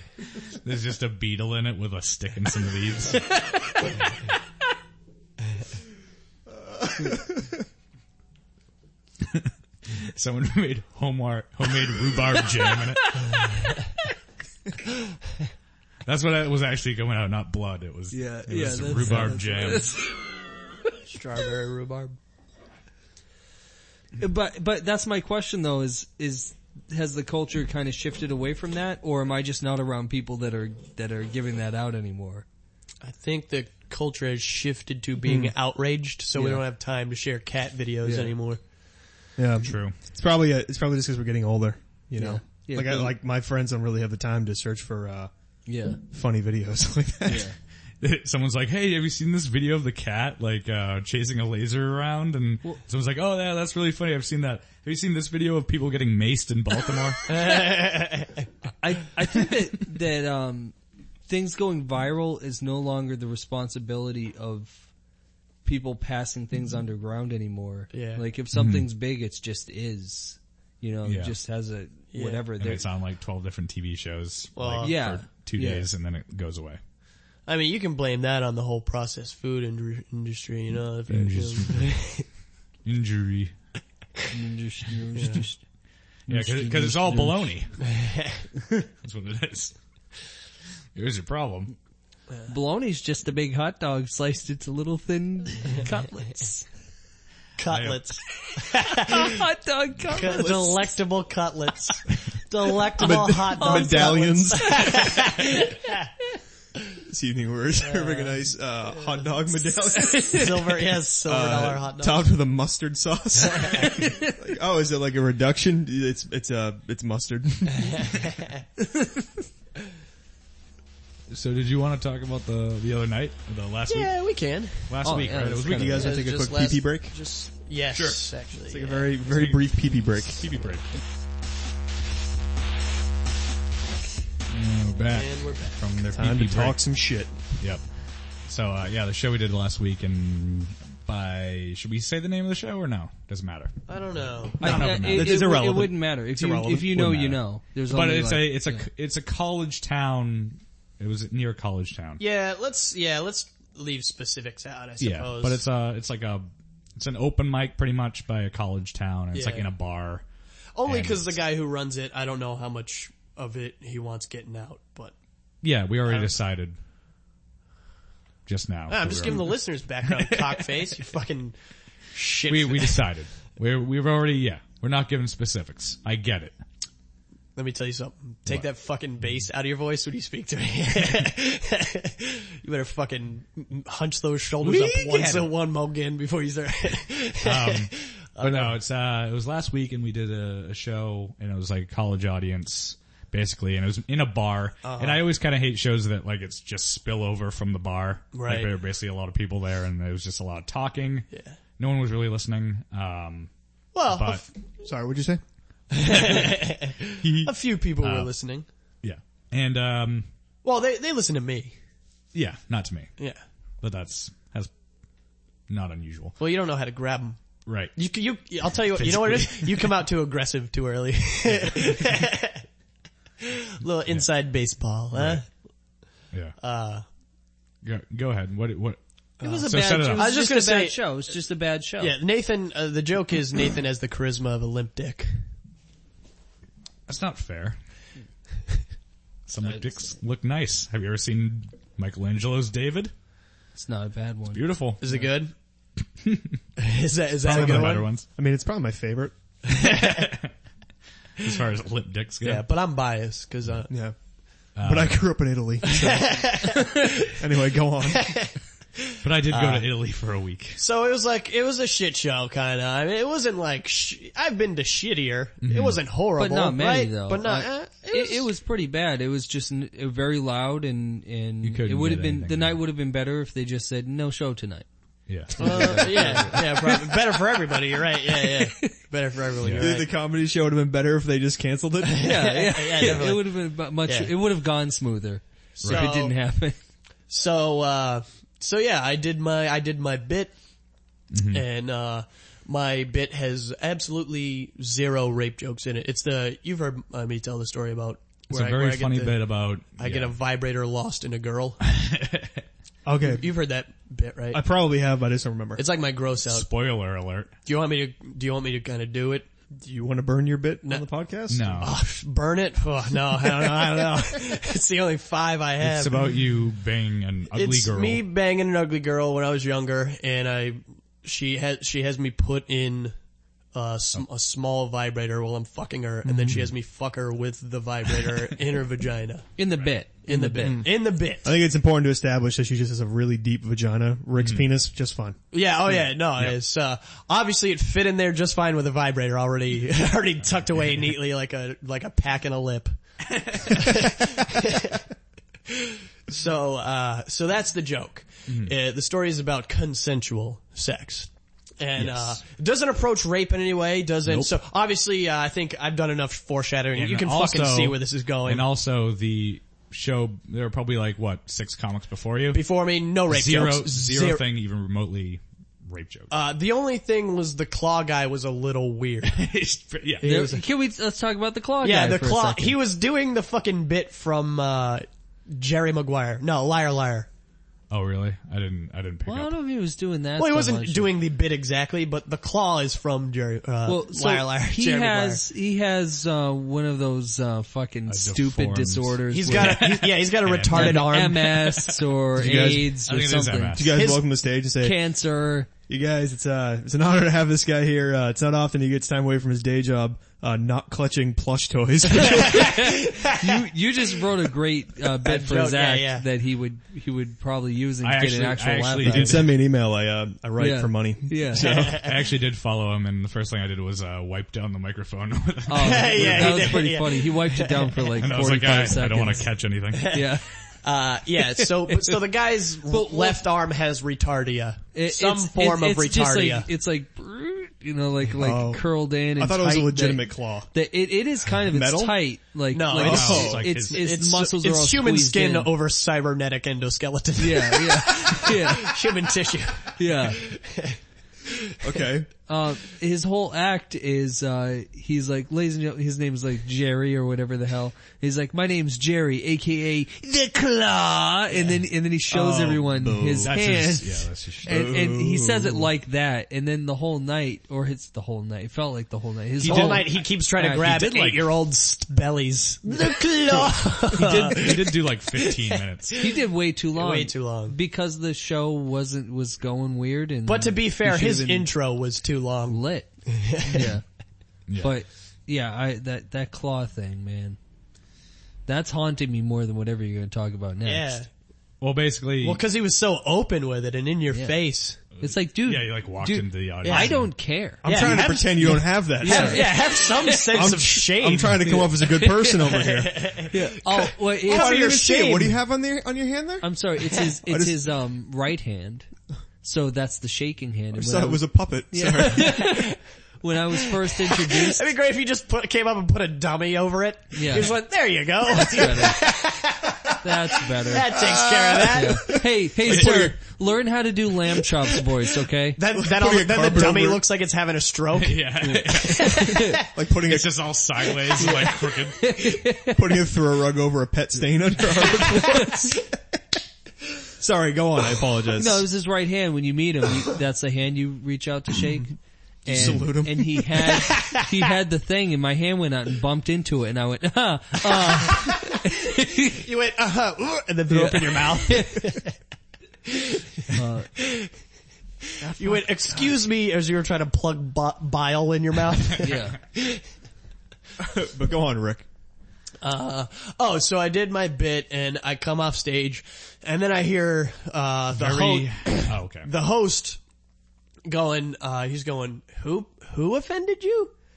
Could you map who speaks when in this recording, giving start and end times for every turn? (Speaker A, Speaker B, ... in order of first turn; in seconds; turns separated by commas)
Speaker A: 0.4-3.3, Speaker A: 9.2-13.4, Speaker A: 16.1-20.0, Speaker B: 18.1-20.1, Speaker C: 21.1-22.2, Speaker B: 24.2-32.5, Speaker C: 33.0-38.6, Speaker D: 35.2-35.5, Speaker B: 36.4-36.6, Speaker B: 38.0-38.4, Speaker D: 39.4-45.3, Speaker A: 39.6-40.0, Speaker B: 42.2-43.1, Speaker B: 45.7-46.0, Speaker D: 46.1-47.5, Speaker B: 47.3-47.6, Speaker A: 48.0-57.2, Speaker C: 57.3-58.4, Speaker B: 58.8-60.8, Speaker B: 61.3-64.9, Speaker B: 65.7-72.9, Speaker C: 67.9-68.2, Speaker A: 68.5-68.8, Speaker A: 71.0-71.4, Speaker C: 72.1-72.5, Speaker A: 72.6-76.8, Speaker C: 74.6-75.0, Speaker B: 74.8-75.9, Speaker C: 77.5-82.3, Speaker A: 81.1-82.2, Speaker A: 82.8-83.5, Speaker B: 84.3-85.6, Speaker C: 85.2-85.5, Speaker B: 86.3-87.5, Speaker A: 86.3-87.9, Speaker C: 88.0-88.4, Speaker A: 89.0-89.7, Speaker A: 91.0-91.8, Speaker B: 92.5-96.7, Speaker C: 97.6-99.4, Speaker A: 97.7-98.0, Speaker B: 98.9-100.9, Speaker C: 100.1-106.1, Speaker D: 103.0-105.1, Speaker B: 103.0-105.2, Speaker D: 107.0-110.5, Speaker C: 107.8-108.4, Speaker B: 110.1-110.4, Speaker C: 110.2-112.3, Speaker D: 111.3-118.2, Speaker B: 118.8-119.3, Speaker A: 121.3-124.2, Speaker C: 123.9-125.0, Speaker A: 124.8-126.1, Speaker B: 125.0-126.2, Speaker D: 125.7-127.2, Speaker C: 126.0-129.2, Speaker A: 127.9-128.2, Speaker D: 128.7-130.7, Speaker A: 129.3-130.9, Speaker A: 134.5-136.9, Speaker C: 135.1-135.8, Speaker D: 136.1-137.3, Speaker A: 137.6-137.9, Speaker A: 138.5-145.4, Speaker C: 143.9-144.9, Speaker B: 144.6-148.8, Speaker D: 145.0-147.4, Speaker A: 147.9-152.2, Speaker C: 152.2-155.6, Speaker A: 155.0-160.2, Speaker C: 159.3-159.7, Speaker C: 160.8-165.2, Speaker A: 160.9-161.4, Speaker A: 165.6-166.8, Speaker C: 166.1-166.4, Speaker A: 168.5-169.6, Speaker C: 168.9-171.6, Speaker A: 170.1-170.7, Speaker C: 172.1-173.0, Speaker A: 172.5-176.6, Speaker C: 177.6-188.8, Speaker A: 184.6-185.5, Speaker A: 187.4-203.5, Speaker C: 194.8-195.2, Speaker C: 198.3-198.7, Speaker C: 203.9-204.5, Speaker A: 204.1-204.4, Speaker D: 204.8-205.4, Speaker C: 205.9-208.7, Speaker A: 207.2-208.3, Speaker A: 209.0-210.3, Speaker C: 210.6-211.8, Speaker A: 212.3-213.2, Speaker A: 213.8-214.7, Speaker A: 215.7-216.4, Speaker C: 216.4-217.4, Speaker A: 217.7-218.0, Speaker C: 217.9-222.6, Speaker A: 218.9-219.9, Speaker A: 221.5-221.8, Speaker C: 223.4-225.5, Speaker A: 225.1-225.4, Speaker C: 226.6-227.1, Speaker A: 227.8-229.0, Speaker B: 229.4-232.2, Speaker C: 229.4-231.0, Speaker A: 229.7-230.3, Speaker C: 232.0-235.3, Speaker A: 237.1-237.8, Speaker A: 239.5-243.1, Speaker B: 243.8-245.3, Speaker A: 244.5-245.0, Speaker C: 245.0-245.5, Speaker A: 246.2-246.6, Speaker C: 246.8-248.1, Speaker A: 247.4-248.3, Speaker D: 247.5-249.3, Speaker C: 249.7-250.4, Speaker A: 249.9-250.5, Speaker A: 251.4-252.7, Speaker C: 252.4-253.9, Speaker D: 253.9-254.2, Speaker A: 254.8-255.2, Speaker D: 254.8-258.3, Speaker C: 255.9-257.4, Speaker C: 258.1-258.6, Speaker A: 259.2-260.8, Speaker C: 259.5-259.9, Speaker C: 260.8-268.5, Speaker A: 265.6-266.0, Speaker B: 266.4-274.9, Speaker A: 271.6-272.8, Speaker A: 275.3-276.4, Speaker B: 275.5-277.3, Speaker C: 275.6-280.1, Speaker B: 278.3-278.9, Speaker A: 279.6-279.9, Speaker D: 279.8-282.5, Speaker C: 282.0-284.3, Speaker B: 282.2-286.8, Speaker C: 285.8-286.4, Speaker A: 285.8-286.1, Speaker C: 287.3-290.5, Speaker A: 291.3-291.6, Speaker C: 291.5-299.4, Speaker A: 298.5-300.4, Speaker C: 300.0-301.8, Speaker A: 301.9-302.6, Speaker D: 303.1-303.5, Speaker C: 303.2-304.6, Speaker D: 304.5-305.9, Speaker C: 305.8-306.7, Speaker A: 306.4-307.5, Speaker C: 307.6-309.5, Speaker D: 309.7-311.9, Speaker A: 311.5-312.0, Speaker C: 311.8-316.4, Speaker A: 315.8-318.2, Speaker C: 317.5-323.1, Speaker C: 323.7-329.5, Speaker A: 326.4-326.7, Speaker B: 329.6-330.9, Speaker C: 330.3-331.5, Speaker D: 330.6-330.9, Speaker D: 331.4-335.4, Speaker A: 334.4-334.7, Speaker C: 335.5-342.9, Speaker C: 343.5-345.1, Speaker C: 345.7-358.6, Speaker A: 348.5-348.8, Speaker A: 352.0-352.4, Speaker A: 354.3-354.6, Speaker A: 356.9-362.6, Speaker C: 362.5-364.4, Speaker A: 363.3-366.3, Speaker C: 366.3-369.4, Speaker A: 369.3-370.3, Speaker C: 370.2-370.6, Speaker B: 370.2-372.8, Speaker C: 371.8-377.3, Speaker A: 377.9-379.6, Speaker B: 379.2-381.1, Speaker C: 380.4-385.4, Speaker B: 383.9-390.1, Speaker A: 388.1-391.4, Speaker C: 389.3-391.8, Speaker B: 390.7-394.2, Speaker D: 392.4-393.0, Speaker A: 392.5-394.0, Speaker D: 393.7-395.0, Speaker B: 394.8-395.7, Speaker D: 395.9-402.8, Speaker C: 402.2-403.6, Speaker B: 402.4-409.5, Speaker C: 405.2-406.3, Speaker A: 408.0-409.5, Speaker D: 409.0-412.1, Speaker B: 410.6-411.7, Speaker C: 411.6-412.1, Speaker A: 411.7-416.8, Speaker B: 415.7-419.5, Speaker C: 415.8-418.1, Speaker A: 418.2-420.2, Speaker C: 419.9-426.7, Speaker B: 420.1-420.5, Speaker B: 422.9-423.5, Speaker B: 424.9-435.7, Speaker D: 428.4-430.7, Speaker D: 431.6-432.2, Speaker C: 432.7-441.9, Speaker D: 433.0-433.6, Speaker A: 433.0-434.0, Speaker B: 437.4-439.0, Speaker B: 440.0-440.4, Speaker D: 441.8-442.3, Speaker B: 442.5-461.4, Speaker D: 452.3-453.6, Speaker A: 453.4-454.9, Speaker D: 454.6-455.9, Speaker A: 459.6-460.1, Speaker C: 459.6-466.4, Speaker A: 464.1-466.2, Speaker B: 466.2-471.7, Speaker C: 466.9-467.8, Speaker C: 470.5-474.0, Speaker B: 472.7-474.0, Speaker A: 474.7-474.9, Speaker B: 474.8-477.6, Speaker B: 478.7-481.2, Speaker C: 480.8-481.3, Speaker A: 481.8-482.6, Speaker C: 482.4-485.0, Speaker B: 484.3-490.5, Speaker A: 485.2-487.3, Speaker C: 486.8-487.1, Speaker D: 487.8-489.8, Speaker C: 487.8-495.6, Speaker D: 490.5-493.5, Speaker B: 491.6-492.5, Speaker B: 493.5-494.9, Speaker D: 494.5-496.7, Speaker B: 496.6-499.1, Speaker D: 497.4-497.8, Speaker B: 499.6-504.9, Speaker D: 500.9-502.8, Speaker C: 504.2-510.2, Speaker B: 507.3-507.8, Speaker B: 508.5-509.3, Speaker B: 510.2-511.1, Speaker C: 510.8-512.4, Speaker D: 511.1-512.2, Speaker B: 511.9-515.8, Speaker D: 512.8-513.4, Speaker C: 515.8-519.9, Speaker D: 515.9-517.2, Speaker A: 518.1-519.5, Speaker B: 519.1-519.8, Speaker D: 519.8-520.7, Speaker A: 520.2-522.5, Speaker B: 521.4-523.0, Speaker D: 522.9-526.1, Speaker B: 525.3-525.7, Speaker D: 527.4-528.9, Speaker B: 528.5-539.6, Speaker D: 532.7-533.7, Speaker C: 534.0-534.5, Speaker C: 538.1-538.9, Speaker C: 539.4-542.4, Speaker B: 540.9-542.0, Speaker C: 543.1-544.5, Speaker B: 543.7-544.1, Speaker B: 545.4-545.9, Speaker C: 545.6-550.0, Speaker B: 549.2-549.6, Speaker D: 551.0-552.1, Speaker C: 552.8-560.2, Speaker A: 558.1-559.5, Speaker C: 561.1-564.1